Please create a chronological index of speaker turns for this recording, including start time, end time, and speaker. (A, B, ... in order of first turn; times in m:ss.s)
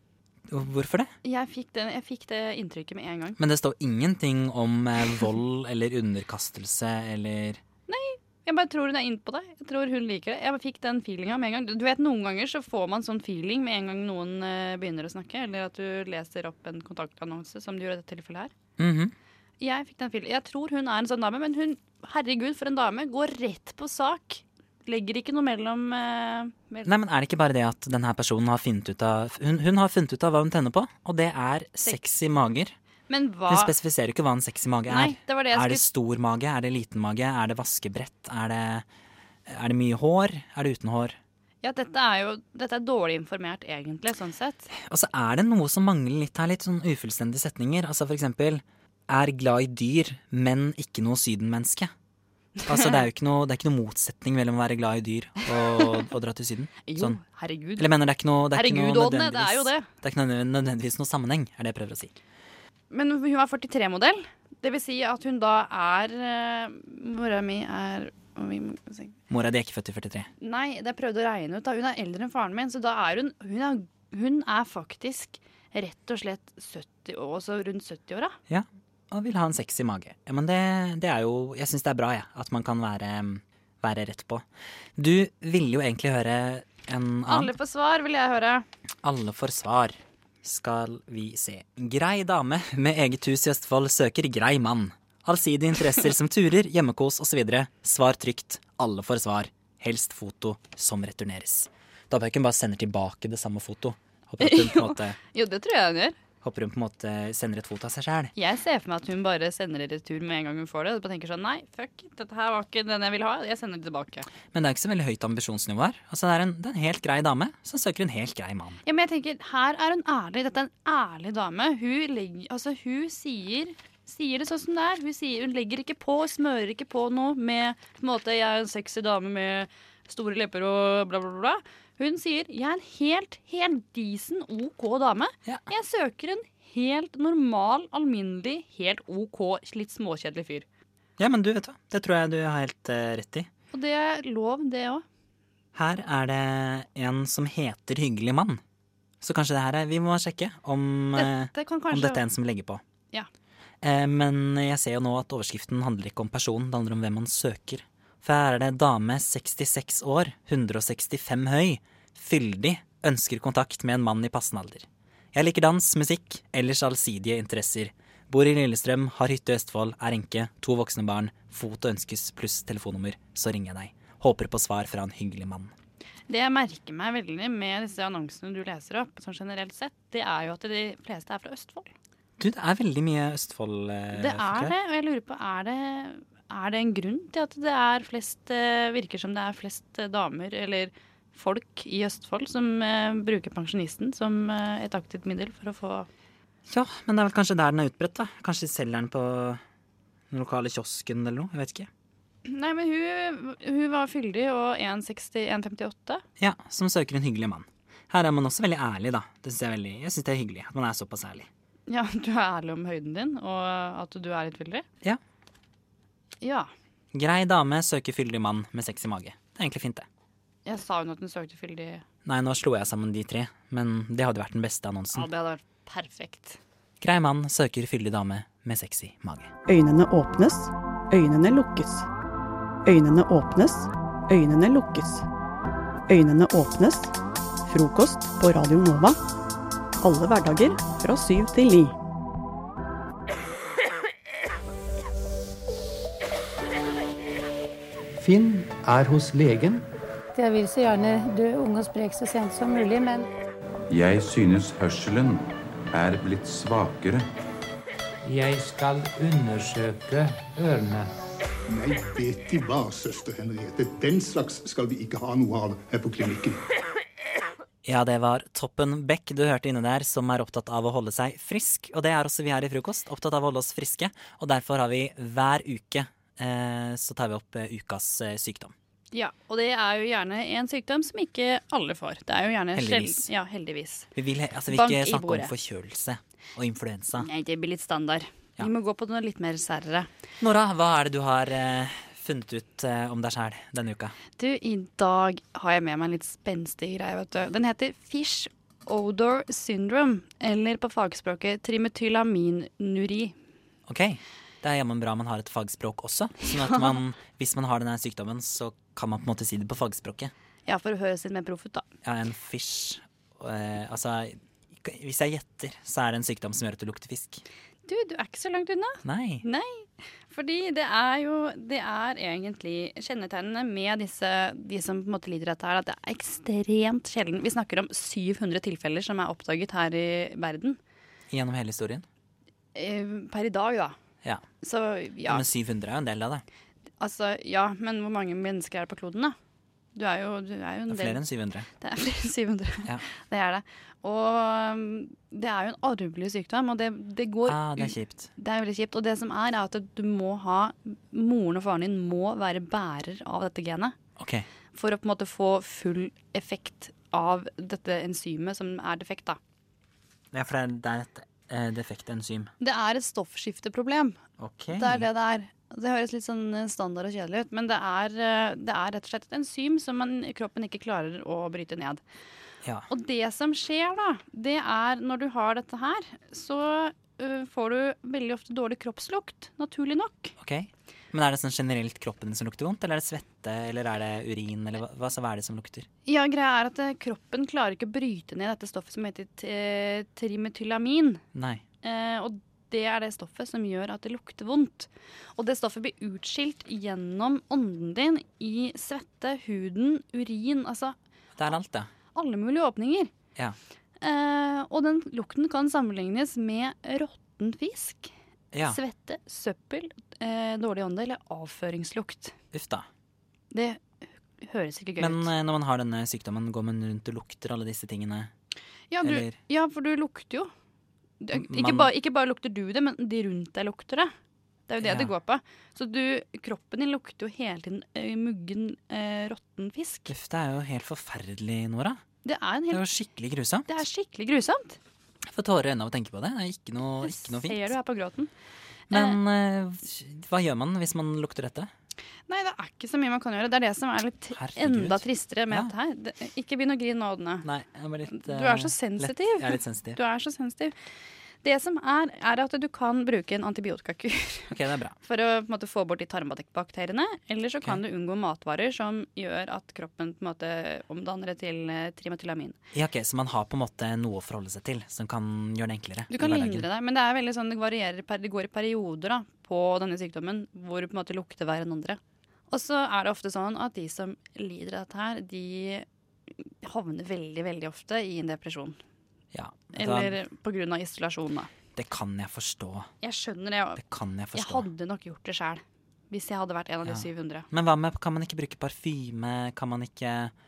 0:00.5-0:01.1 A
0:01.2-0:03.4 B
0:03.4-0:07.6 A
0:07.9-0:18.5 B
0:18.8-0:19.2 A
0:19.6-0:26.9 B
0:26.8-0:32.7 A
0:33.1-0:33.7 B
0:33.5-0:38.9 A
0:34.9-0:35.9 B
0:39.5-0:41.2 A
0:41.6-0:44.7 B
0:44.8-0:51.9 A
0:52.6-0:53.0 B
0:52.7-0:57.2 A
0:55.8-0:56.0 B
0:56.9-0:57.9 B
0:57.8-1:02.1 A
0:58.5-0:59.9 B
1:02.9-1:09.2 B
1:09.3-1:10.3 A
1:10.4-1:18.4 B
1:18.5-1:24.4 A
1:25.0-1:27.6 A
1:27.3-1:28.7 B
1:29.0-1:45.2 A
1:44.4-1:46.2 B
1:46.4-1:48.3 A
1:48.4-1:54.3 B
1:54.5-1:58.8 A
1:58.8-2:20.7 B
2:21.2-2:23.5 A
2:23.7-2:25.0 B
2:25.8-2:28.6 A
2:29.2-2:32.8 A
2:31.2-2:32.2 B
2:33.8-2:55.7 A
2:56.3-3:01.9 B
3:02.4-3:04.7 A
3:04.1-3:16.1 B
3:16.7-3:19.6 A
3:20.3-3:21.9 A
3:22.5-3:26.2 B
3:26.4-3:31.5 A
3:31.9-3:34.8 B
3:36.4-3:36.7 B
3:37.1-3:40.1 A
3:40.7-3:42.0 B
3:42.2-3:45.3 A
3:45.1-3:46.6 B
3:47.0-3:49.5 A
3:49.7-3:52.1 C
3:52.8-3:55.3 C
3:56.1-3:57.1 C
3:57.7-3:59.2 C
4:00.0-4:02.0 C
4:08.2-4:09.9 D
4:10.4-4:13.3 E
4:13.9-4:15.4 F
4:15.9-4:17.2 F
4:18.2-4:21.1 D
4:21.7-4:26.6 G
4:27.8-4:38.7 A
4:39.1-4:44.1 B
4:42.8-4:43.3 A
4:44.2-4:47.3 A
4:44.7-4:45.5 B
4:47.2-4:50.1 B
4:50.4-4:54.2 A
4:54.4-5:03.4 B
5:03.9-5:10.3 A
5:10.7-5:11.8 B
5:12.0-5:17.4 A
5:17.9-5:30.8 B
5:19.0-5:19.4 A
5:31.3-5:32.0 A
5:32.8-5:34.0 B
5:34.6-5:35.4 B
5:35.3-5:36.4 A
5:37.0-5:39.4 B
5:40.0-5:41.2 B
5:40.9-5:41.7 A
5:41.8-5:54.0 B
5:47.5-5:48.3 A
5:54.2-5:54.5 A
5:54.7-5:59.4 B
6:00.3-6:02.5 A
6:02.6-6:04.2 B
6:04.4-6:05.1 A
6:04.7-6:12.0 B
6:12.9-6:20.3 B
6:20.4-6:25.9 A
6:26.1-6:31.2 B
6:31.3-6:31.6 A
6:31.8-6:41.0 B
6:41.4-6:41.9 A
6:42.1-6:43.1 B
6:44.0-6:48.1 B
6:48.5-6:48.8 A
6:48.6-6:52.3 B
6:52.5-6:52.9 A
6:53.5-6:55.3 B
6:55.0-6:58.3 A
6:58.9-7:00.5 B
6:59.0-6:59.4 A
7:01.2-7:04.1 B
7:01.3-7:01.9 A
7:04.7-7:10.1 B
7:04.8-7:05.1 A
7:10.1-7:12.0 A
7:12.2-7:12.8 B
7:12.7-7:13.8 A
7:13.7-7:14.8 B
7:15.2-7:17.8 A
7:17.0-7:18.3 B
7:18.9-7:19.2 B
7:18.9-7:21.7 A
7:22.3-7:27.5 B
7:24.3-7:25.7 A
7:27.4-7:30.0 A
7:28.1-7:30.8 B
7:31.4-7:42.6 B
7:34.5-7:35.0 A
7:42.7-7:46.7 A
7:46.1-7:55.9 B
7:56.5-7:58.8 B
7:59.3-8:00.2 A
7:59.8-8:01.5 B
8:01.8-8:02.9 A
8:03.0-8:03.8 B
8:03.8-8:04.7 A
8:04.3-8:07.5 B
8:06.9-8:10.3 A